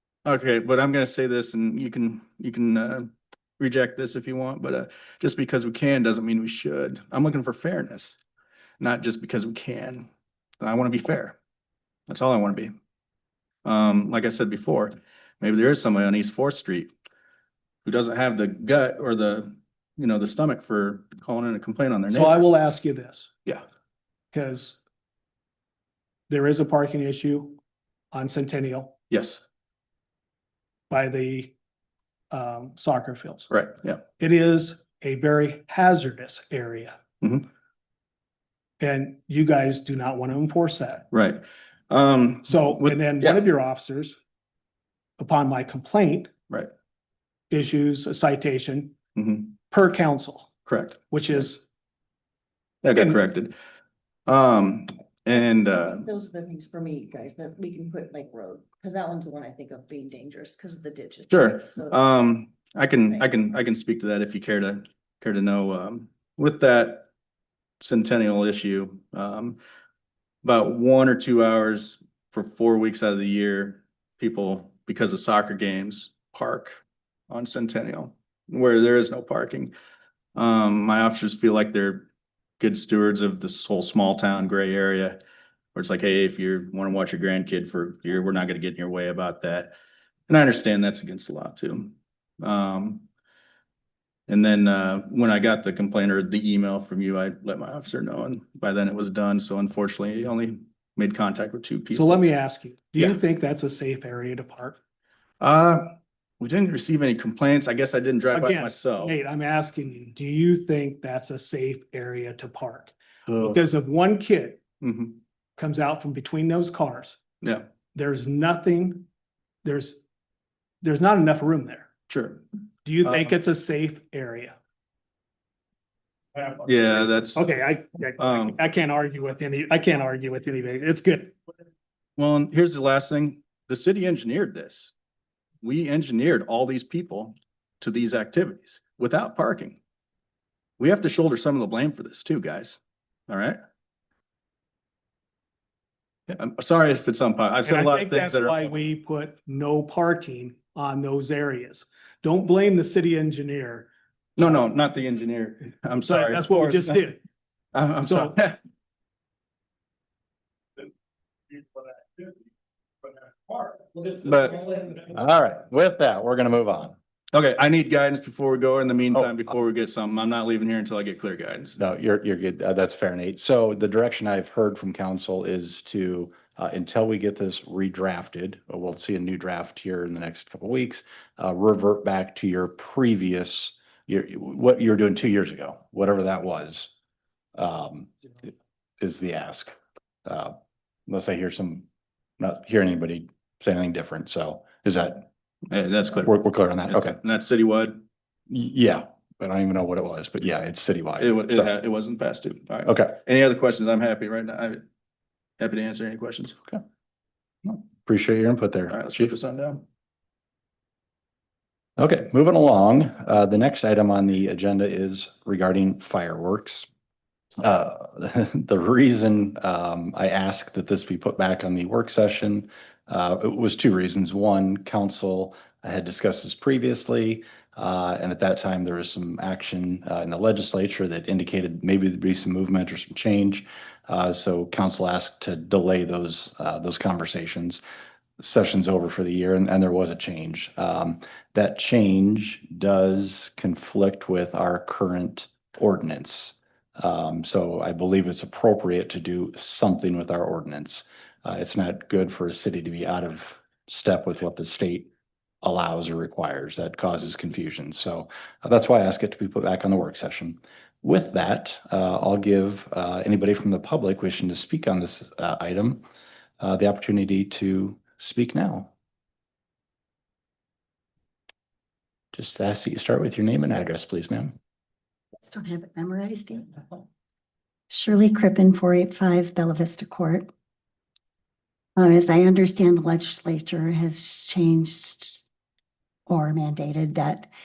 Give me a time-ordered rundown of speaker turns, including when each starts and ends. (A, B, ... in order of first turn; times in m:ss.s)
0:00.2-0:08.2 A
0:08.8-0:10.1 A
0:10.6-0:11.4 A
0:12.1-0:12.7 A
0:13.6-0:16.9 A
0:17.8-0:22.4 A
0:22.1-0:23.3 B
0:24.3-0:24.8 B
0:26.3-0:27.6 B
0:28.1-0:28.9 B
0:29.1-0:29.4 A
0:30.9-0:31.5 B
0:32.3-0:33.5 B
0:33.5-0:34.0 A
0:34.2-0:37.0 B
0:38.8-0:41.1 B
0:41.1-0:43.4 A
0:42.4-0:44.2 B
0:45.2-0:46.3 B
0:47.5-0:48.9 B
0:49.2-0:49.5 A
0:49.7-0:50.5 B
0:50.6-0:51.0 A
0:51.1-0:51.6 B
0:52.8-0:53.5 A
0:54.3-0:56.0 A
0:55.7-1:02.0 C
1:01.3-1:07.1 A
1:07.8-1:09.6 A
1:10.4-1:19.7 A
1:20.4-1:22.1 A
1:22.6-1:25.2 A
1:25.7-1:29.7 A
1:30.3-1:33.0 A
1:34.3-1:42.2 A
1:41.9-1:44.8 B
1:45.4-1:49.1 A
1:48.3-1:54.6 B
1:53.3-1:53.6 A
1:54.8-1:55.2 A
1:55.6-1:57.2 B
1:57.9-1:59.0 B
1:59.6-2:00.0 B
2:00.8-2:01.9 B
2:02.1-2:02.4 A
2:02.8-2:04.5 B
2:06.6-2:07.4 A
2:07.3-2:11.4 B
2:08.2-2:08.6 A
2:12.2-2:14.9 A
2:15.6-2:19.8 A
2:20.8-2:23.6 A
2:26.3-2:28.7 A
2:27.6-2:33.9 B
2:34.4-2:37.0 A
2:36.0-2:37.2 B
2:37.7-2:38.6 A
2:38.0-2:38.4 B
2:44.0-2:44.8 A
2:44.9-2:47.0 D
2:47.3-2:51.8 A
2:51.8-3:06.9 D
3:07.6-3:09.7 D
3:10.2-3:10.5 D
3:11.1-3:11.8 D
3:12.4-3:15.3 D
3:15.7-3:16.3 A
3:16.2-3:17.2 D
3:16.9-3:18.0 A
3:18.5-3:21.7 D
3:21.2-3:24.8 A
3:22.8-3:23.2 D
3:25.6-3:26.6 A
3:27.6-3:29.1 D
3:28.9-3:29.8 A
3:32.0-3:36.9 D
3:37.6-3:57.8 D
3:58.4-4:15.1 D
4:15.6-4:26.0 D
4:26.6-4:28.9 D
4:32.3-4:34.6 D
4:35.4-4:37.0 E
4:37.9-4:40.5 E
4:42.0-4:45.4 E
4:46.3-4:47.5 E